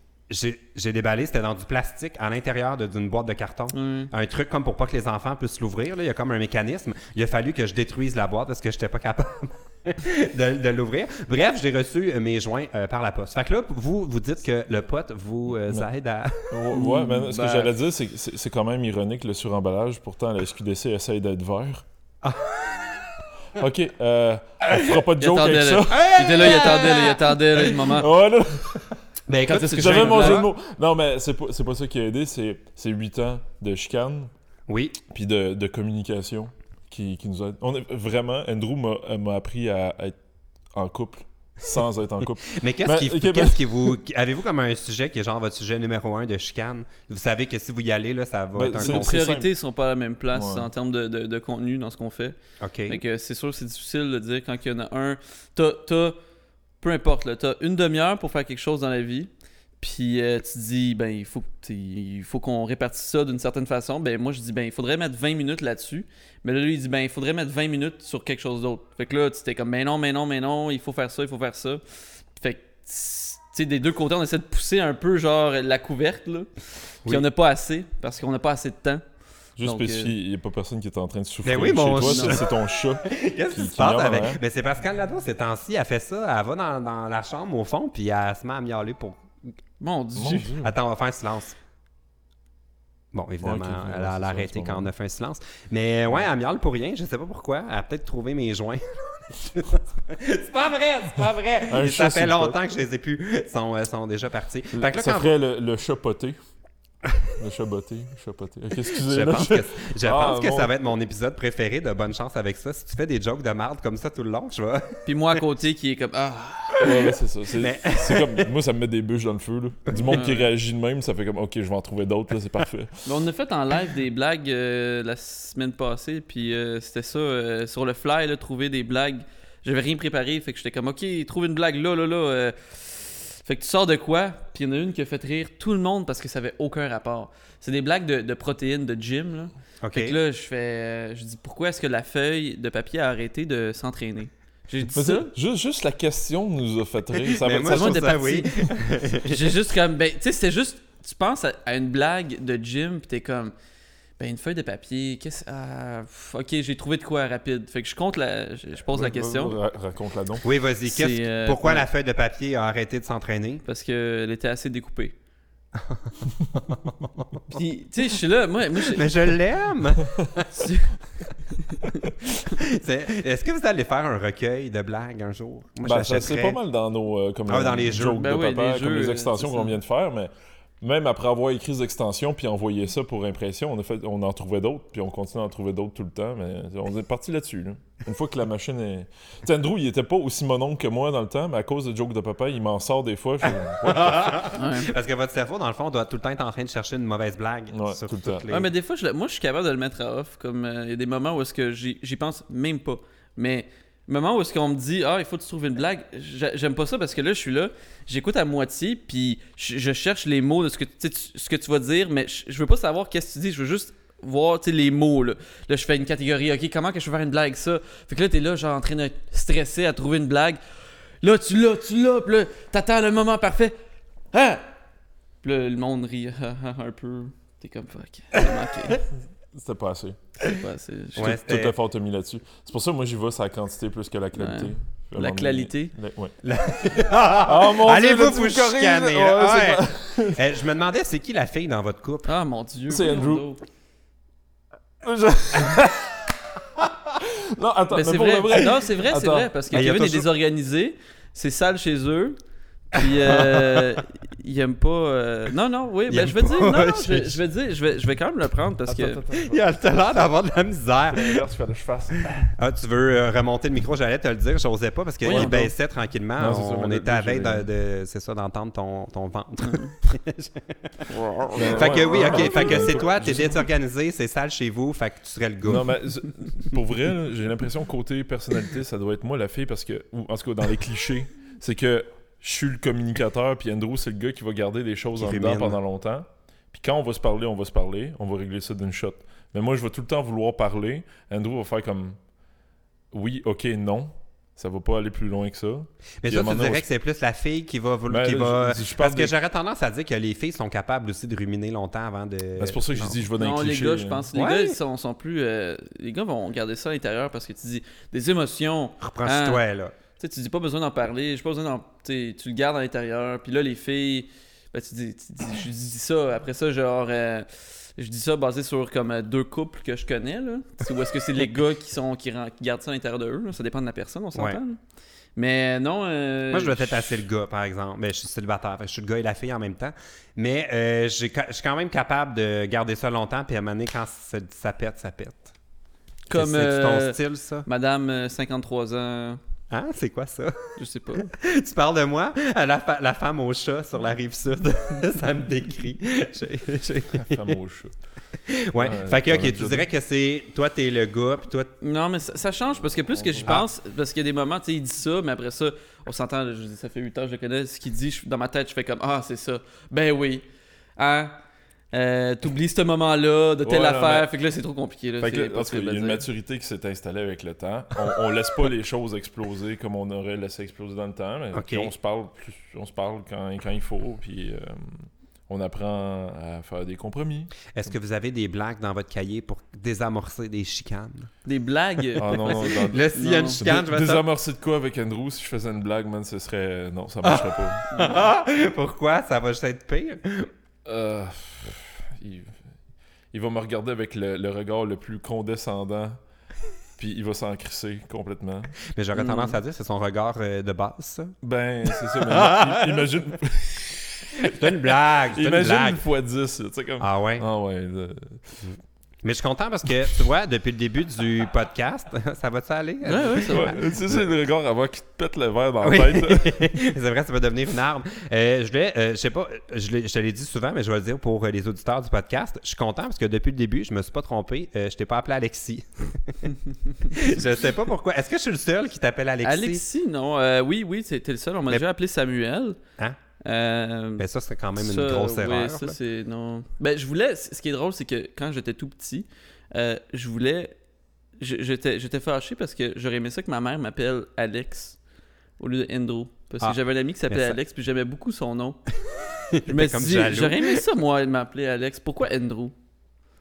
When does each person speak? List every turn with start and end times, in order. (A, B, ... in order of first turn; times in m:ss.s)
0:00.3-0:16.5 A
0:03.7-0:04.1 B
0:16.5-0:21.8 C
0:16.7-0:17.7 B
0:22.2-0:23.2 A
0:23.6-0:26.8 C
0:25.2-0:28.1 B
0:25.9-0:27.8 A
0:27.7-0:29.0 C
0:29.3-0:30.5 A
0:29.4-0:30.4 B
0:29.5-0:34.3 C
0:34.7-0:35.0 A
0:35.1-0:40.2 C
0:40.8-0:44.0 C
0:42.5-0:49.3 A
0:48.6-0:49.5 C
0:48.8-0:52.4 B
0:50.3-0:50.7 C
0:52.6-0:53.0 A
0:52.9-0:56.2 B
0:56.8-1:11.8 B
1:12.4-1:16.5 B
1:17.0-1:19.0 B
1:19.6-1:24.4 C
1:19.6-1:20.1 B
1:21.4-1:29.2 A
1:22.0-1:22.4 B
1:29.8-1:30.5 B
1:30.2-1:30.7 C
1:30.6-1:31.6 A
1:33.1-1:45.3 A
1:33.4-1:34.9 C
1:41.7-1:42.6 C
1:44.7-1:46.4 C
1:47.4-1:50.7 C
1:49.0-1:55.0 A
1:55.1-1:56.9 B
1:56.8-2:03.1 C
1:57.6-1:58.5 A
2:00.1-2:00.5 B
2:03.1-2:25.3 B
2:19.8-2:20.2 A
2:25.0-2:28.4 C
2:27.2-2:29.6 A
2:27.6-2:28.6 B
2:29.2-2:33.5 B
2:34.2-2:39.6 B
2:38.9-2:40.4 C
2:40.4-2:43.6 A
2:40.9-2:41.9 B
2:43.6-2:45.1 B
2:45.8-2:46.2 A
2:46.8-2:47.4 A
2:47.5-2:49.3 B
2:48.8-2:50.7 A
2:50.5-2:51.0 B
2:51.6-2:52.0 B
2:52.3-2:56.6 A
2:55.8-3:14.5 C
2:57.5-2:58.2 A
2:58.2-2:59.8 B
3:13.8-3:18.7 A
3:14.6-3:14.9 B
3:17.7-3:18.5 C
3:18.5-3:40.6 B
3:41.2-3:43.7 B
3:44.3-3:44.6 B
3:45.4-3:49.0 B
3:49.5-3:50.2 C
3:50.4-3:51.3 B
3:51.2-3:51.8 A
3:51.2-3:56.3 C
3:54.4-3:56.0 B
3:56.4-4:02.3 A
3:57.3-4:00.4 C
4:02.3-4:03.6 B
4:02.9-4:03.4 C
4:05.0-4:09.5 C
4:07.9-4:12.4 B
4:09.7-4:10.3 A
4:12.9-4:19.2 B
4:13.0-4:14.0 A
4:16.1-4:17.4 A
4:18.9-4:19.7 C
4:19.3-4:21.4 A
4:21.1-4:22.5 C
4:22.5-4:35.9 A
4:25.2-4:25.7 B
4:25.3-4:25.6 C
4:26.4-4:27.7 C
4:29.6-4:29.9 B
4:31.1-4:32.7 B
4:31.5-4:33.6 C
4:35.6-4:52.2 C
4:45.2-4:45.8 A
4:53.1-4:56.8 C
4:56.2-5:03.2 A
4:58.1-4:59.3 C
5:02.6-5:04.3 C
5:03.4-5:09.6 B
5:04.3-5:04.8 A
5:09.0-5:09.9 A
5:10.2-5:24.8 B
5:24.4-5:24.6 A
5:25.4-5:27.2 B
5:26.5-5:35.5 A
5:36.3-5:39.4 B
5:36.3-5:37.7 A
5:39.7-5:47.5 A
5:40.8-5:41.3 B
5:47.2-5:47.9 C
5:48.5-5:51.7 A
5:48.8-5:49.9 C
5:51.8-6:00.4 B
5:53.1-5:53.6 C
6:01.0-6:01.4 B
6:01.9-6:06.2 B
6:03.6-6:04.3 C
6:05.2-6:17.6 C
6:11.5-6:11.9 A
6:17.7-6:21.3 A
6:21.4-6:23.6 B
6:22.2-6:28.0 C
6:22.2-6:24.2 A
6:27.2-6:30.5 A
6:30.9-6:32.6 C
6:33.3-6:36.2 C
6:37.0-6:38.8 C
6:38.9-6:41.3 A
6:39.2-6:39.6 B
6:41.4-6:44.7 C
6:42.2-6:43.0 A
6:44.4-6:46.0 A
6:45.3-6:48.7 C
6:47.0-6:47.4 A
6:49.2-6:54.2 A
6:53.0-6:53.8 B
6:53.5-6:56.8 C
6:55.8-7:06.5 A
7:07.1-7:09.8 A
7:09.4-7:12.8 B
7:13.4-7:14.3 B
7:14.2-7:16.0 A
7:14.8-7:20.7 B
7:21.4-7:25.0 B
7:25.6-7:28.8 B
7:26.6-7:27.6 A
7:29.5-7:30.8 A
7:29.7-7:32.7 B